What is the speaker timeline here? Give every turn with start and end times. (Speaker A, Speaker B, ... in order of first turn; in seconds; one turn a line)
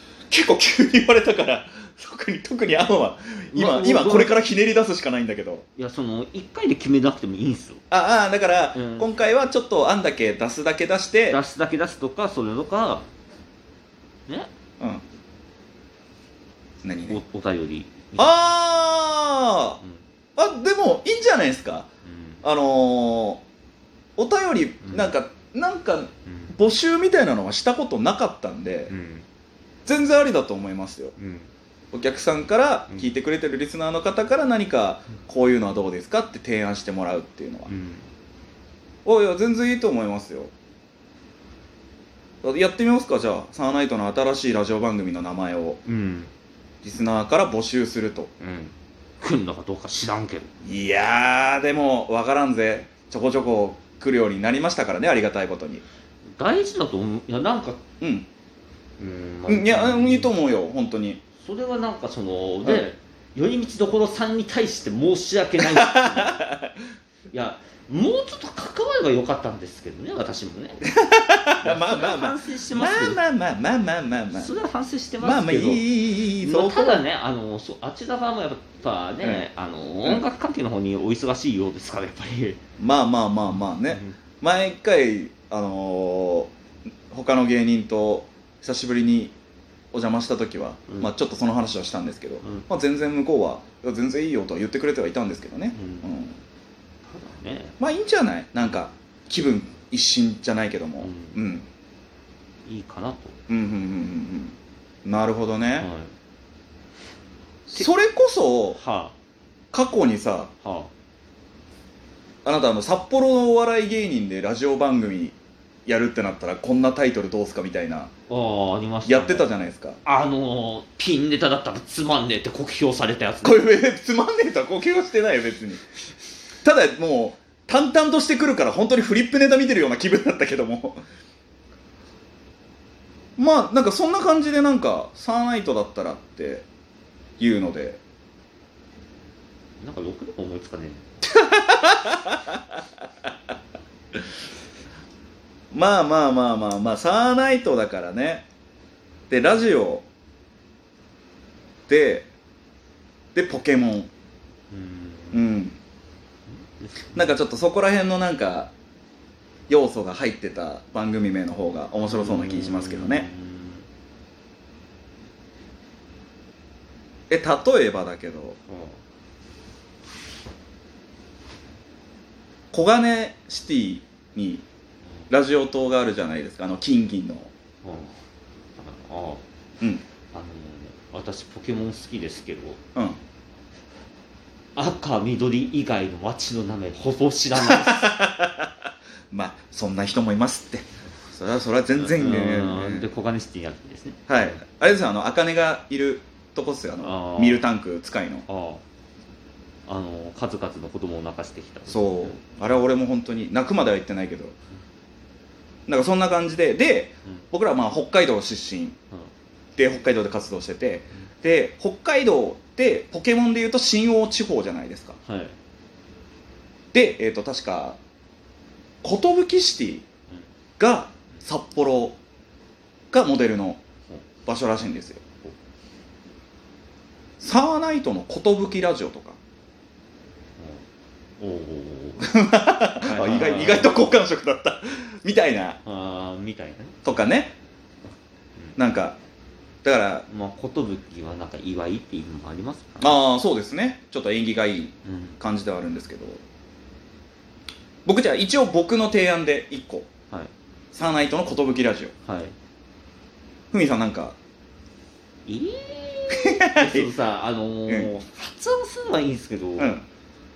Speaker A: 0.3-5.6
Speaker B: 3.5-4.4
Speaker B: 5.8-7.8
Speaker A: 7.9-11.4
Speaker B: 8.7-9.1
Speaker B: 11.3-13.1
Speaker A: 16.8-17.2
Speaker B: 17.1-18.4
Speaker A: 18.2-19.8
Speaker A: 20.4-21.9
Speaker B: 22.0-22.4
Speaker A: 22.4-23.4
Speaker A: 24.2-28.9
Speaker B: 24.8-25.1
Speaker B: 26.3-26.5
Speaker B: 28.9-29.2
Speaker A: 29.9-31.1
Speaker B: 31.2-31.5
Speaker A: 31.9-37.7
Speaker B: 32.9-33.1
Speaker B: 37.7-38.1
Speaker A: 39.0-40.5
Speaker A: 42.4-45.8
Speaker B: 45.9-46.3
Speaker A: 46.8-48.3
Speaker B: 48.4-50.5
Speaker A: 50.6-55.8
Speaker B: 56.4-57.8
Speaker A: 58.0-58.3
Speaker B: 59.0-60.3
Speaker A: 59.5-61.2
Speaker B: 61.4-66.4
Speaker A: 65.6-66.7
Speaker B: 67.3-70.8
Speaker A: 70.8-74.5
Speaker B: 71.6-73.2
Speaker B: 74.3-82.6
Speaker A: 75.2-77.0
Speaker A: 79.2-79.5
Speaker A: 82.8-86.5
Speaker B: 83.5-84.1
Speaker A: 87.1-89.3
Speaker A: 89.9-96.4
Speaker B: 92.4-92.7
Speaker B: 95.7-96.1
Speaker B: 97.1-97.8
Speaker A: 97.8-101.7
Speaker B: 101.0-101.4
Speaker B: 102.7-103.4
Speaker A: 103.5-105.9
Speaker B: 105.8-106.1
Speaker A: 107.7-108.8
Speaker B: 108.8-109.1
Speaker A: 109.7-110.5
Speaker B: 110.6-110.9
Speaker A: 112.4-118.1
Speaker B: 118.3-119.5
Speaker A: 119.0-120.0
Speaker B: 120.0-123.7
Speaker A: 123.4-125.8
Speaker A: 126.6-131.0
Speaker A: 133.4-136.6
Speaker A: 137.4-138.0
Speaker B: 139.8-141.1
Speaker A: 141.3-142.8
Speaker A: 145.7-148.5
Speaker A: 149.3-150.0
Speaker A: 151.9-152.3
Speaker A: 153.3-154.1
Speaker B: 154.7-155.5
Speaker A: 155.3-155.8
Speaker B: 156.6-157.4
Speaker A: 157.1-158.7
Speaker A: 159.7-163.3
Speaker B: 162.0-163.8
Speaker A: 167.3-168.6
Speaker B: 168.7-169.0
Speaker A: 172.7-174.6
Speaker A: 175.3-177.5
Speaker B: 177.8-178.2
Speaker B: 178.8-179.4
Speaker B: 180.3-182.8
Speaker B: 184.8-188.1
Speaker A: 187.5-188.7
Speaker A: 189.3-193.1
Speaker B: 192.0-194.7
Speaker A: 194.3-198.4
Speaker B: 197.0-197.7
Speaker B: 198.5-198.8
Speaker B: 199.9-202.4
Speaker A: 201.9-204.5
Speaker A: 205.9-209.0
Speaker A: 209.8-215.2
Speaker B: 215.2-215.5
Speaker A: 216.9-218.0
Speaker A: 219.0-220.1
Speaker A: 220.8-222.2
Speaker A: 223.1-223.8
Speaker A: 224.4-225.2
Speaker A: 227.4-229.4
Speaker B: 231.4-232.3
Speaker A: 232.2-235.8
Speaker B: 233.0-234.1
Speaker B: 235.8-237.0
Speaker A: 237.0-237.5
Speaker A: 238.8-239.2
Speaker A: 239.8-240.2
Speaker B: 240.3-243.2
Speaker A: 243.0-246.4
Speaker B: 245.0-245.4
Speaker A: 248.0-250.1
Speaker A: 250.9-252.1
Speaker B: 252.2-252.5
Speaker A: 253.7-254.3
Speaker B: 255.5-260.0
Speaker A: 256.3-257.1
Speaker A: 259.8-260.0